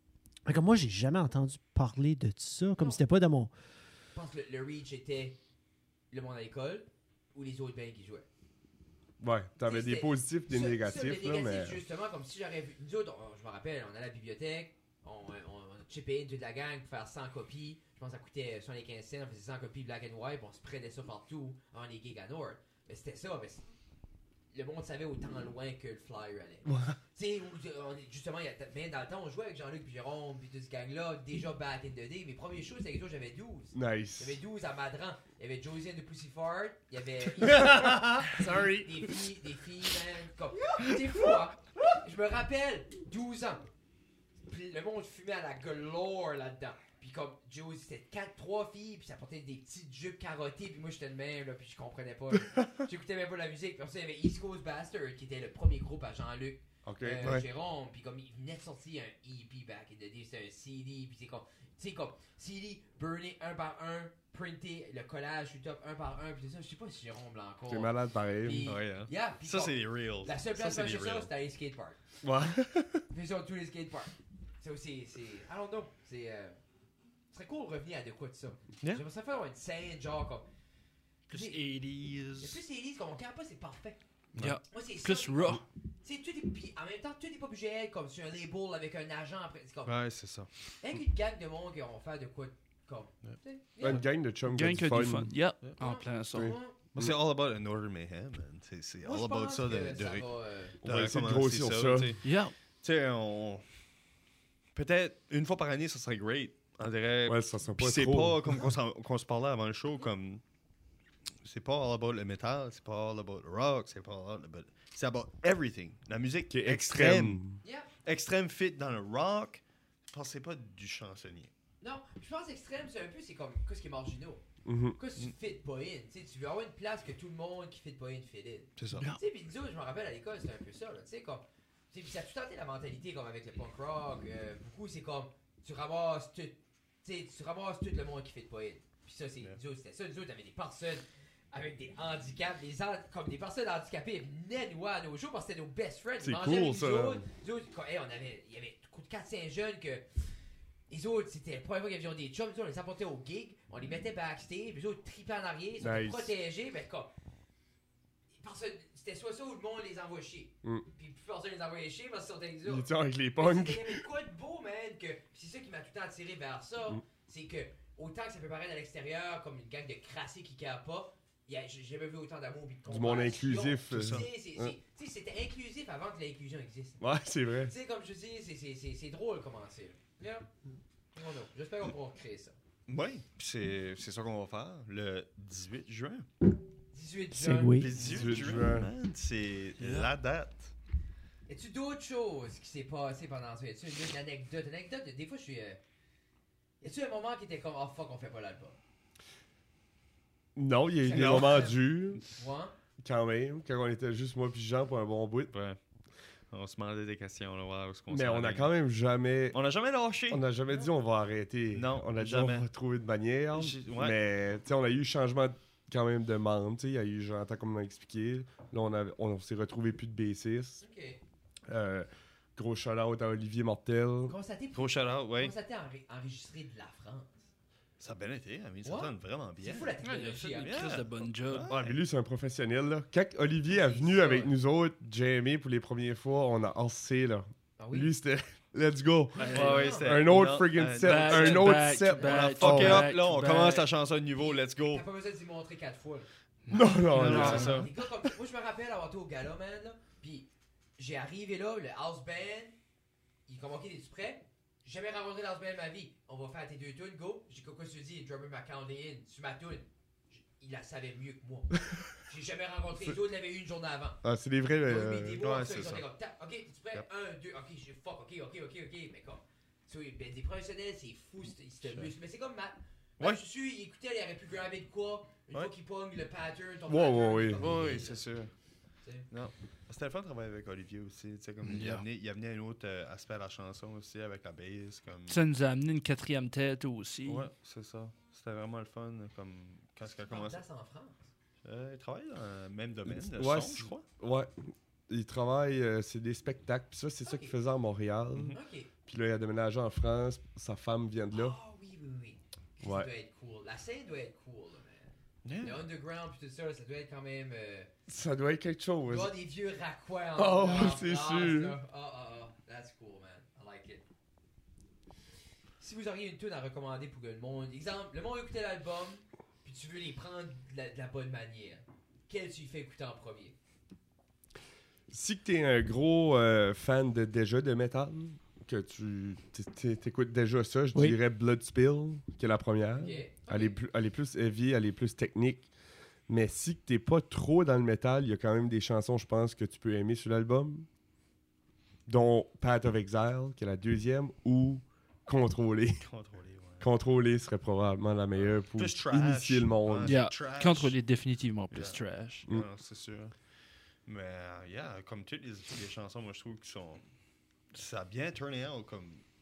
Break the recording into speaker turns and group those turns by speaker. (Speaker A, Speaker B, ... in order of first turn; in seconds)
Speaker A: 0.5-3.5, 37.4-39.0, 187.3-187.9
Speaker B: 4.1-5.4, 6.1-8.3, 9.7-23.7, 24.5-43.7, 44.5-72.0, 73.1-76.6, 77.3-80.5, 81.3-81.6, 82.4-84.0, 84.7-90.0, 90.8-94.1, 95.8-96.8, 99.0-100.8, 117.6-117.9, 121.8-124.4, 125.0-150.1, 150.9-157.1, 158.4-177.0, 177.7-180.5, 181.1-182.6, 186.9-188.6, 191.5-195.8, 196.8-198.8, 201.0-202.8, 220.8-221.2, 224.3-227.5, 228.8-230.8, 233.7-234.5, 237.8-238.1, 239.5-240.3, 242.2-242.5, 244.4-246.3, 247.2-252.8, 253.5-264.2, 264.9-278.2, 279.0-279.3, 290.1-291.3, 297.2-297.6, 298.5-298.9, 301.3-307.9, 309.1-314.0, 315.8-323.6, 333.0-333.8
Speaker C: 9.2-11.8, 26.7-27.0, 33.7-34.4, 56.9-57.5, 67.7-68.7, 72.2-73.0, 93.8-95.3, 96.3-97.2, 100.8-102.2, 107.3-108.7, 116.5-117.6, 124.7-125.0, 146.2-147.2, 155.8-156.3, 162.7-164.0, 172.9-174.7, 177.0-177.7, 188.0-188.9, 200.6-202.2, 203.0-205.5, 208.1-209.6, 210.3-220.8, 221.7-224.3, 231.7-243.1, 246.7-247.8, 264.2-265.4, 276.9-277.8, 293.3-301.6, 302.8-303.1, 308.1-309.3, 310.4-311.8, 325.1-335.7, 336.3-340.9, 342.1-346.0, 346.8-350.2
Speaker D: 68.7-71.3, 89.8-90.5, 93.2-94.0, 97.0-100.3, 100.8-103.7, 104.8-110.4, 111.4-117.4, 118.0-121.5, 128.8-129.1, 173.9-174.3, 182.9-186.3, 187.8-190.7, 201.1-201.8, 205.5-205.8, 206.5-208.7, 209.5-210.4, 211.7-212.7, 213.5-214.2, 224.8-225.5, 228.0-230.0, 230.6-232.0, 239.4-245.1, 247.2-247.9, 265.4-266.0, 271.9-272.1, 277.6-278.5, 279.3-285.5, 287.3-290.6, 291.6-294.0, 298.3-298.6, 305.4-305.8, 346.0-346.9, 348.4-351.0, 351.7-353.4, 354.1-357.1, 357.7-359.2
Speaker E: 81.3-82.6, 84.3-85.6, 94.5-96.6, 102.2-102.5, 189.8-190.1, 230.0-231.7, 239.4-239.9, 241.0-243.9, 246.7-247.9, 281.7-282.0, 285.3-287.5, 350.0-352.5